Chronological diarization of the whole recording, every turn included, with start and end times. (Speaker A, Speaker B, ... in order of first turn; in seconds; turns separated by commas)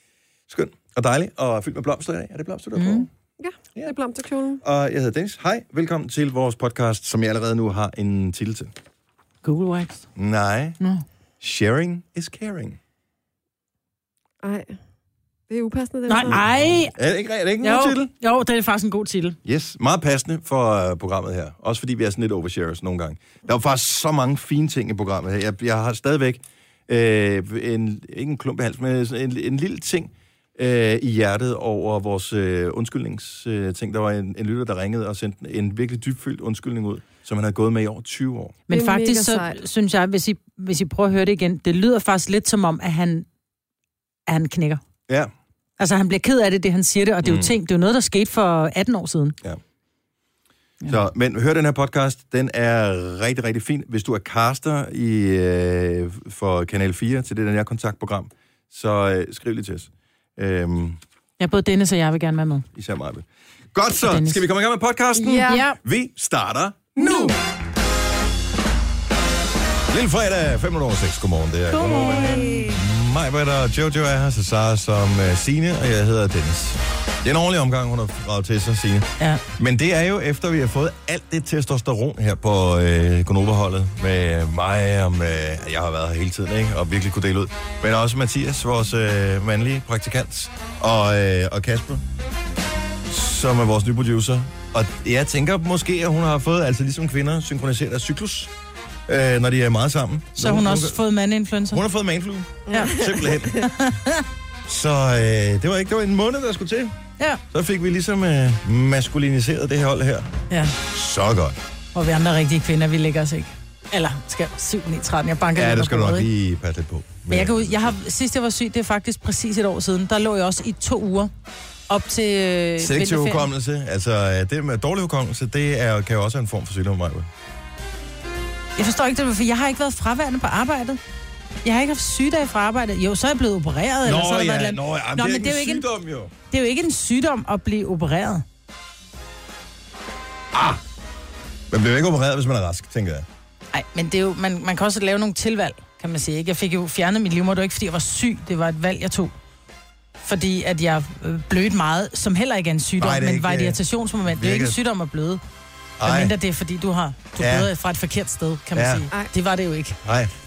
Speaker A: 0.5-3.1, Speaker B: 2.8-3.0, Speaker C: 3.4-4.6, Speaker A: 4.6-8.7, Speaker B: 9.4-10.1, Speaker A: 10.2-10.8, Speaker A: 11.4-12.8, Speaker C: 14.4-14.7, Speaker C: 15.5-16.4, Speaker B: 16.1-16.9, Speaker A: 16.2-18.1, Speaker B: 17.6-19.4, Speaker A: 19.4-38.6, Speaker B: 38.7-43.2, Speaker C: 38.7-39.6, Speaker B: 44.3-44.8, Speaker B: 45.8-49.4, Speaker A: 47.2-47.5, Speaker A: 50.9-61.0, Speaker B: 61.4-62.6, Speaker A: 62.7-67.3, Speaker B: 64.0-64.4, Speaker C: 65.2-65.6, Speaker B: 65.2-65.8, Speaker B: 67.0-67.3, Speaker A: 69.9-92.0, Speaker B: 71.7-72.8, Speaker A: 93.1-98.5, Speaker A: 99.1-101.0, Speaker B: 100.3-101.8, Speaker A: 101.7-103.6, Speaker C: 102.7-103.6, Speaker B: 102.7-103.0, Speaker B: 103.6-104.2, Speaker A: 104.7-106.9, Speaker A: 107.5-110.3, Speaker B: 110.5-110.7, Speaker A: 110.9-111.6, Speaker B: 111.9-116.3, Speaker A: 115.5-117.9, Speaker B: 117.3-121.3, Speaker B: 121.9-123.5, Speaker A: 122.8-127.3, Speaker B: 128.8-131.0, Speaker B: 131.6-135.8, Speaker A: 134.0-136.3, Speaker B: 136.5-138.4, Speaker A: 140.5-140.8, Speaker A: 141.7-143.2, Speaker B: 143.7-149.3, Speaker B: 150.2-155.4, Speaker A: 153.0-154.8, Speaker A: 156.0-156.3, Speaker B: 156.0-160.0, Speaker A: 157.4-157.7, Speaker A: 158.7-159.1, Speaker A: 160.0-160.3